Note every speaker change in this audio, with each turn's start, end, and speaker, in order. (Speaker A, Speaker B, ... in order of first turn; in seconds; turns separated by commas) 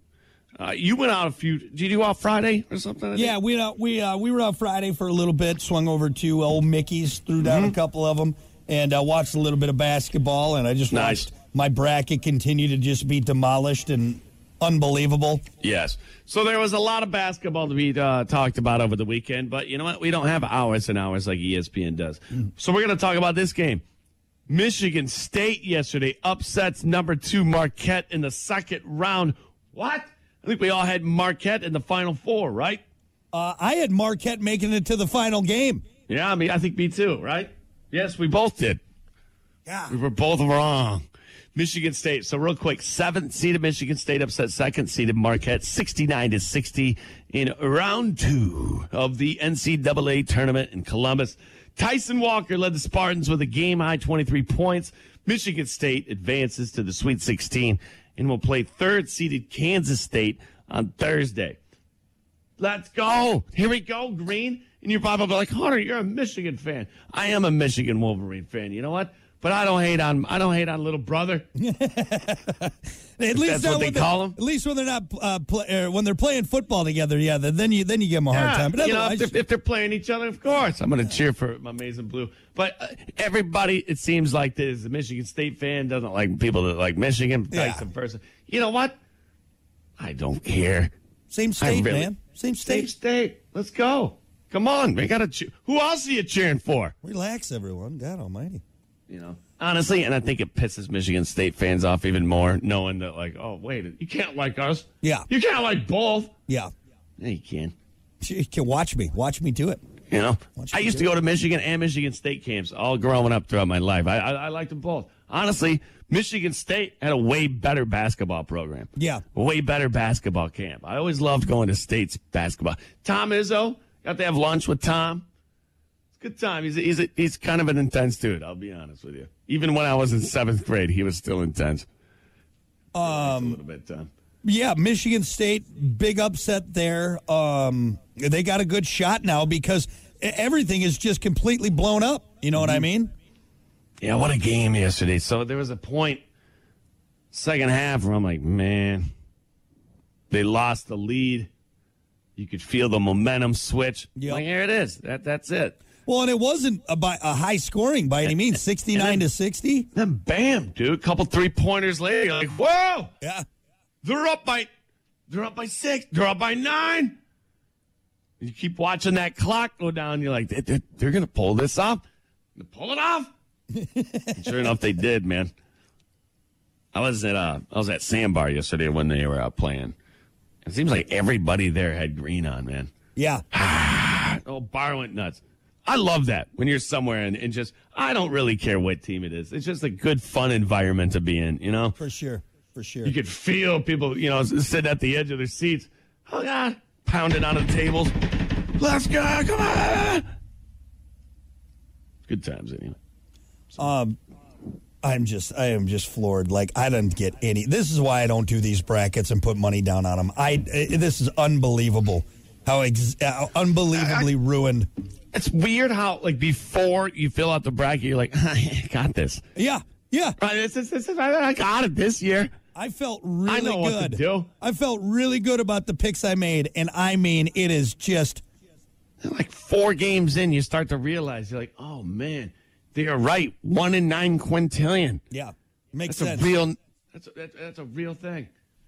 Speaker A: 0.6-3.3, Speaker B: 3.1-15.4, Speaker A: 7.4-7.8, Speaker A: 10.9-11.3, Speaker A: 15.6-23.8, Speaker A: 24.5-32.8, Speaker B: 33.3-35.8, Speaker A: 36.1-38.8, Speaker B: 39.7-39.9, Speaker A: 39.9-61.6, Speaker A: 62.6-71.5, Speaker B: 71.5-79.3, Speaker A: 73.3-74.4, Speaker A: 78.3-89.0, Speaker B: 87.5-87.8, Speaker A: 90.0-90.9, Speaker B: 91.3-92.9, Speaker A: 91.6-96.9, Speaker B: 97.0-98.6, Speaker A: 99.1-106.3, Speaker B: 105.0-105.3, Speaker A: 107.2-107.7, Speaker B: 108.2-109.8, Speaker A: 110.1-125.2, Speaker B: 110.6-111.1, Speaker B: 119.0-119.2, Speaker A: 126.2-131.9, Speaker B: 132.9-133.6, Speaker A: 133.0-134.1, Speaker B: 134.4-143.1, Speaker A: 142.6-142.8, Speaker A: 144.0-146.2, Speaker A: 147.3-149.1, Speaker A: 150.3-151.5, Speaker A: 152.3-155.8, Speaker B: 154.2-154.4, Speaker B: 156.1-159.9, Speaker A: 158.9-159.2, Speaker A: 159.9-163.1, Speaker B: 163.2-163.5, Speaker A: 164.0-164.7, Speaker A: 165.3-167.2, Speaker A: 168.4-172.0, Speaker A: 172.6-173.3, Speaker B: 173.7-174.7, Speaker A: 174.3-175.5, Speaker A: 176.9-179.9, Speaker A: 180.7-182.9, Speaker B: 183.2-183.4, Speaker A: 183.5-192.0, Speaker B: 192.0-193.2, Speaker A: 193.0-200.2, Speaker A: 202.3-203.0, Speaker B: 203.8-204.2, Speaker B: 205.0-214.9, Speaker A: 213.9-214.3, Speaker A: 215.3-219.4, Speaker B: 219.6-220.4, Speaker A: 220.4-222.5, Speaker B: 222.7-228.4, Speaker A: 223.5-224.5, Speaker A: 229.2-235.2, Speaker B: 235.3-236.5, Speaker A: 236.1-238.5